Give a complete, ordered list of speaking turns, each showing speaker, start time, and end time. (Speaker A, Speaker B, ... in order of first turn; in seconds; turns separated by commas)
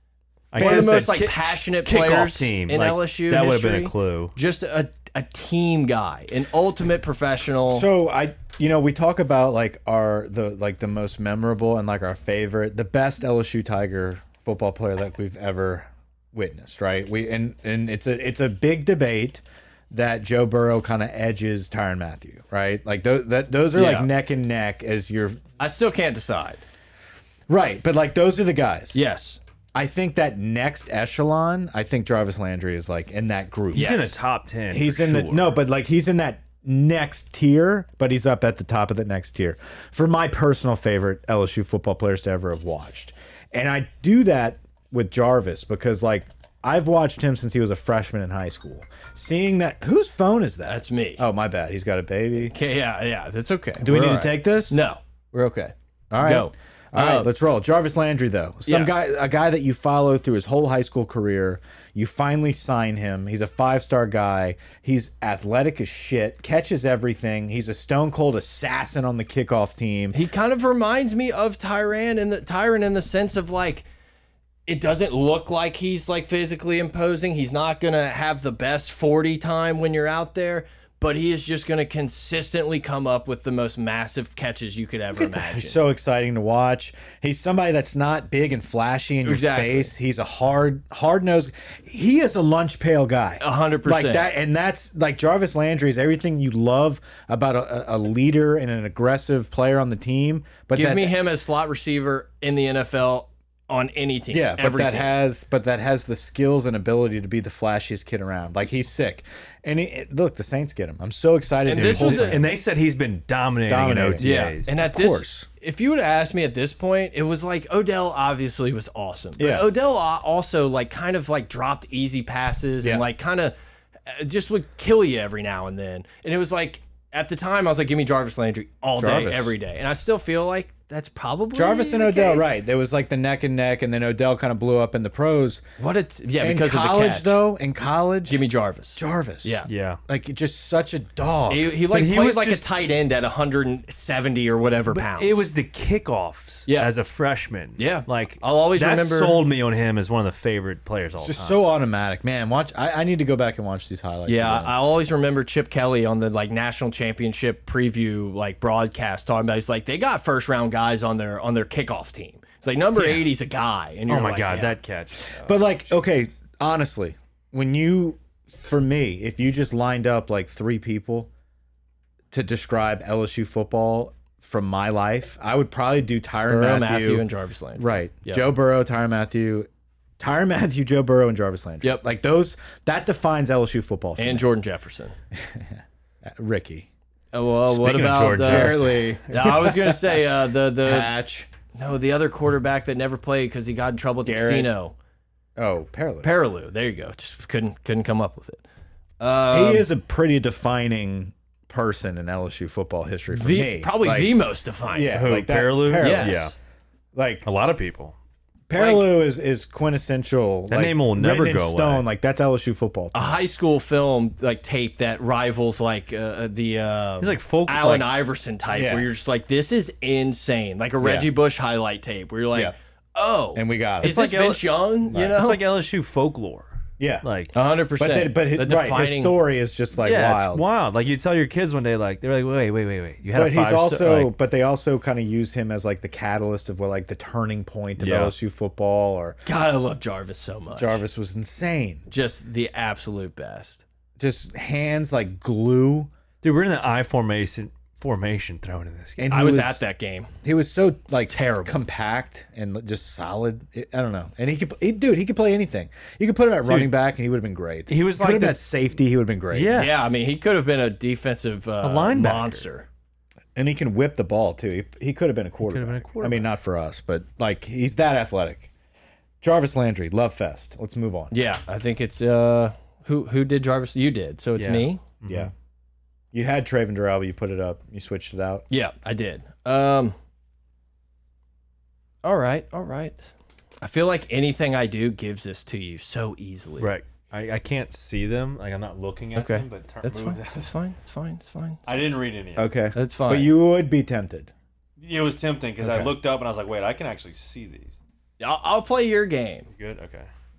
Speaker A: 0.5-4.3, Speaker B: 0.5-7.9, Speaker C: 0.6-1.0, Speaker C: 7.7-25.4, Speaker B: 23.7-24.1, Speaker B: 25.6-26.6, Speaker C: 27.5-29.0, Speaker B: 28.9-29.4, Speaker C: 29.7-34.2, Speaker A: 33.7-35.5, Speaker B: 33.7-34.1, Speaker C: 34.7-52.5, Speaker B: 50.7-51.2, Speaker B: 52.5-57.3, Speaker C: 53.8-54.8, Speaker C: 56.1-70.2, Speaker B: 58.7-58.9, Speaker B: 70.1-73.8, Speaker B: 74.7-85.8, Speaker C: 85.1-101.2, Speaker B: 89.2-89.9, Speaker B: 93.4-94.3, Speaker B: 100.7-105.1, Speaker C: 104.3-112.5, Speaker B: 111.7-112.4, Speaker A: 111.8-114.7, Speaker C: 113.7-115.5, Speaker B: 114.2-123.5, Speaker C: 119.4-119.7, Speaker B: 124.1-132.5, Speaker C: 129.0-129.5, Speaker C: 131.5-135.6, Speaker B: 135.8-137.4, Speaker C: 136.4-138.4, Speaker B: 138.3-139.7, Speaker C: 139.0-141.8, Speaker A: 139.7-140.0, Speaker B: 141.5-145.5, Speaker A: 141.9-142.7, Speaker A: 144.9-151.6, Speaker B: 146.7-146.9, Speaker B: 147.8-149.4, Speaker C: 151.2-154.8, Speaker B: 154.3-164.8, Speaker A: 163.0-163.3, Speaker A: 164.1-165.5, Speaker C: 165.3-171.3, Speaker C: 172.3-177.3, Speaker B: 176.5-178.5, Speaker C: 177.8-179.7, Speaker C: 180.2-184.5, Speaker B: 184.2-185.1, Speaker C: 185.3-186.9, Speaker B: 187.3-191.1, Speaker A: 187.7-189.8, Speaker C: 188.3-190.0, Speaker C: 190.8-191.5, Speaker B: 191.7-194.9, Speaker C: 194.2-194.7, Speaker C: 195.6-196.3, Speaker B: 196.2-198.6, Speaker B: 199.2-199.9, Speaker C: 199.5-204.4, Speaker B: 203.4-205.2, Speaker C: 204.9-206.5, Speaker A: 205.1-206.6, Speaker B: 206.0-206.5, Speaker C: 207.1-207.4, Speaker A: 207.4-208.2, Speaker C: 208.7-213.4, Speaker B: 208.7-209.1, Speaker A: 210.7-212.1, Speaker B: 213.1-225.6, Speaker A: 217.2-218.1, Speaker C: 218.8-219.1, Speaker C: 221.0-221.3, Speaker C: 223.6-224.2, Speaker A: 224.0-227.5, Speaker C: 225.1-225.4, Speaker C: 227.0-227.3, Speaker B: 227.5-229.4, Speaker C: 228.0-230.6, Speaker A: 230.0-234.3, Speaker C: 233.3-239.4, Speaker A: 238.0-238.3, Speaker B: 239.4-241.0, Speaker C: 240.8-242.1, Speaker B: 242.1-243.8, Speaker C: 244.2-246.1, Speaker A: 246.4-249.3, Speaker C: 249.2-249.9, Speaker B: 249.3-250.3, Speaker C: 250.4-259.8, Speaker B: 251.1-251.8, Speaker A: 256.7-256.9, Speaker A: 257.9-258.6, Speaker A: 259.5-260.0, Speaker B: 259.7-262.9, Speaker A: 261.8-262.7, Speaker C: 263.6-268.7, Speaker A: 265.6-266.5, Speaker C: 269.4-271.3, Speaker B: 271.3-275.0, Speaker A: 274.6-275.5, Speaker C: 275.3-275.5, Speaker C: 276.3-278.6, Speaker B: 278.7-280.2, Speaker B: 282.2-283.2, Speaker B: 283.8-286.9, Speaker A: 286.8-290.7, Speaker B: 289.4-291.9, Speaker A: 291.9-292.7, Speaker C: 292.6-294.5, Speaker B: 292.9-293.5, Speaker A: 295.0-298.0, Speaker C: 295.8-296.1, Speaker B: 298.4-299.7, Speaker A: 299.7-300.3